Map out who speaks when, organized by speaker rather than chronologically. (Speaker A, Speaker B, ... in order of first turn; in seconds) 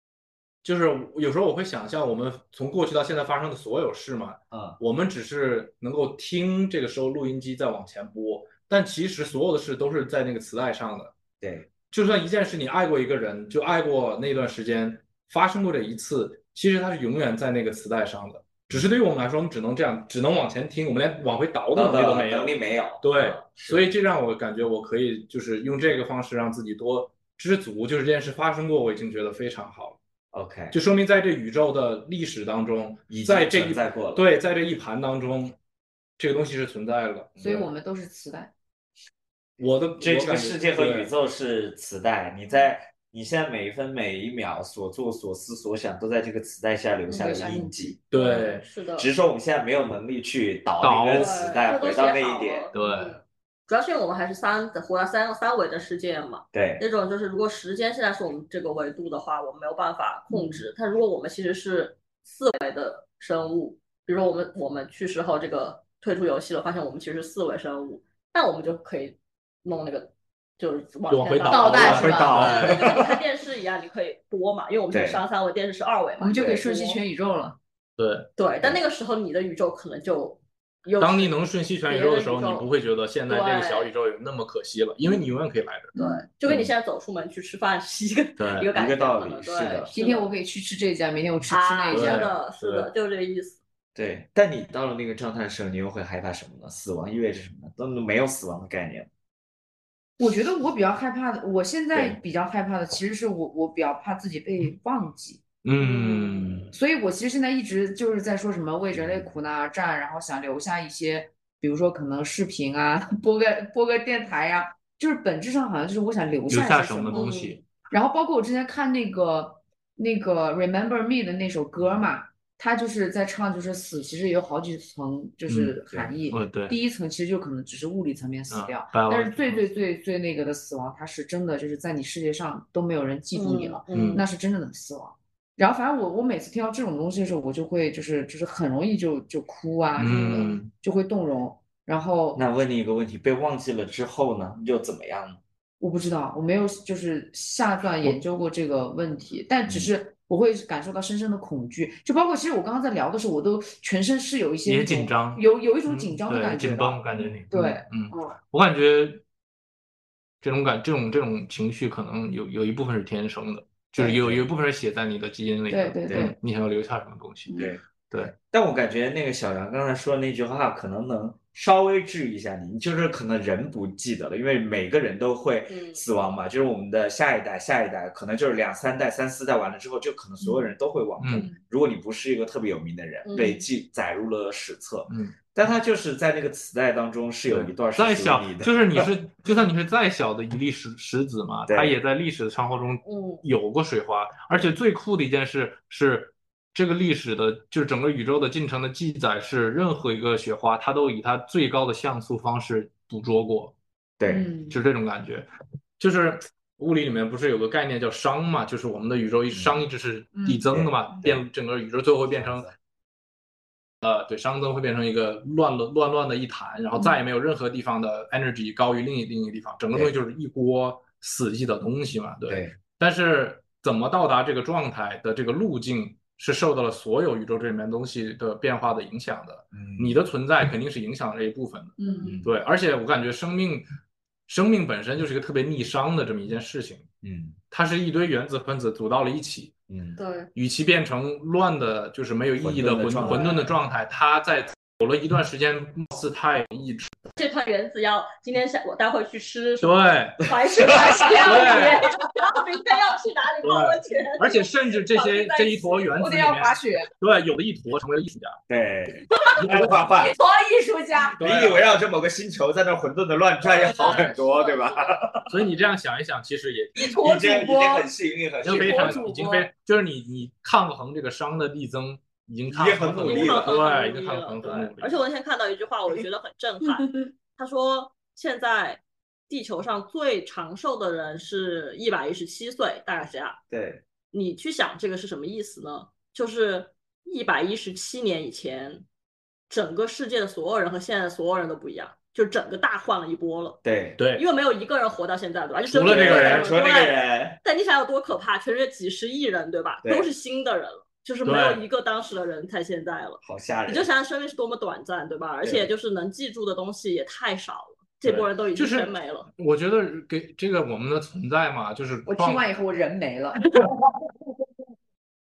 Speaker A: 0.6-11.1, 11.9-30.0, 30.7-35.6, 36.2-37.5, 39.6-41.1, 48.1-48.7, 50.8-51.4, 52.7-53.2, 71.1-72.9, 78.0-78.3, 81.0-85.9, 88.4-88.7, 91.9-92.9, 105.6-106.7, 116.5-117.6, 125.5-125.8, 126.3-126.8, 128.5-129.6, 133.9-134.2, 139.9-140.7, 154.6-159.2, 160.4-167.5, 168.1-168.3, 181.2-181.5, 185.1-185.3, 187.5-203.8, 204.7-205.4, 206.0-212.7, 214.0-233.8, 234.5-237.1, 237.7-239.7, 240.5-247.1, 249.8-250.5, 251.2-252.0, 253.6-258.6, 259.6-259.9, 261.4-261.8, 264.0-264.3, 265.5-267.1, 268.6-275.1, 294.2-294.4, 295.9-296.7, 301.4-301.8, 308.2-312.7
Speaker B: 4.5-4.8, 11.4-11.7, 21.7-23.9, 30.3-30.8, 33.1-34.2, 37.4-37.7, 40.0-48.0, 49.0-52.7, 56.5-56.9, 71.8-73.0, 74.9-75.2, 76.4-76.6, 88.7-89.9, 93.9-99.1, 101.9-102.2, 108.9-109.3, 121.8-122.1, 142.3-145.4, 164.0-164.4, 166.1-166.3, 168.3-189.1, 191.7-191.9, 204.2-204.5, 209.5-209.8, 210.7-211.4, 212.3-212.7, 222.5-222.8, 229.7-230.2, 232.2-232.5, 237.2-237.6, 239.9-240.2, 242.6-243.5, 258.7-260.4, 261.4-265.6, 267.0-269.2, 272.7-273.8, 283.7-284.0, 293.8-294.2, 296.1-297.6, 300.0-300.3, 303.4-304.1, 305.6-305.9
Speaker C: 37.4-38.5, 47.1-48.0, 60.3-60.6, 71.5-72.5, 76.2-77.6, 85.9-86.2, 89.9-92.3, 100.2-117.4, 117.9-142.4, 145.8-158.3, 165.7-166.4, 180.4-180.7, 204.2-204.8, 210.3-211.1, 232.0-232.4, 250.7-252.9, 256.1-257.1, 259.4-261.5, 266.9-268.1, 276.8-277.2, 312.2-313.9
Speaker D: 48.1-49.1, 51.1-77.0, 78.4-81.3, 81.8-82.7, 83.3-83.9, 85.9-90.3, 91.5-93.6, 105.8-106.5, 117.1-117.6, 133.3-134.2, 140.0-140.6, 175.7-176.0, 183.2-183.6, 193.0-193.4, 240.2-240.5, 243.2-243.5, 247.3-256.1, 263.8-265.1, 268.7-269.7, 273.2-283.6, 284.3-289.0, 289.7-293.8, 294.3-309.5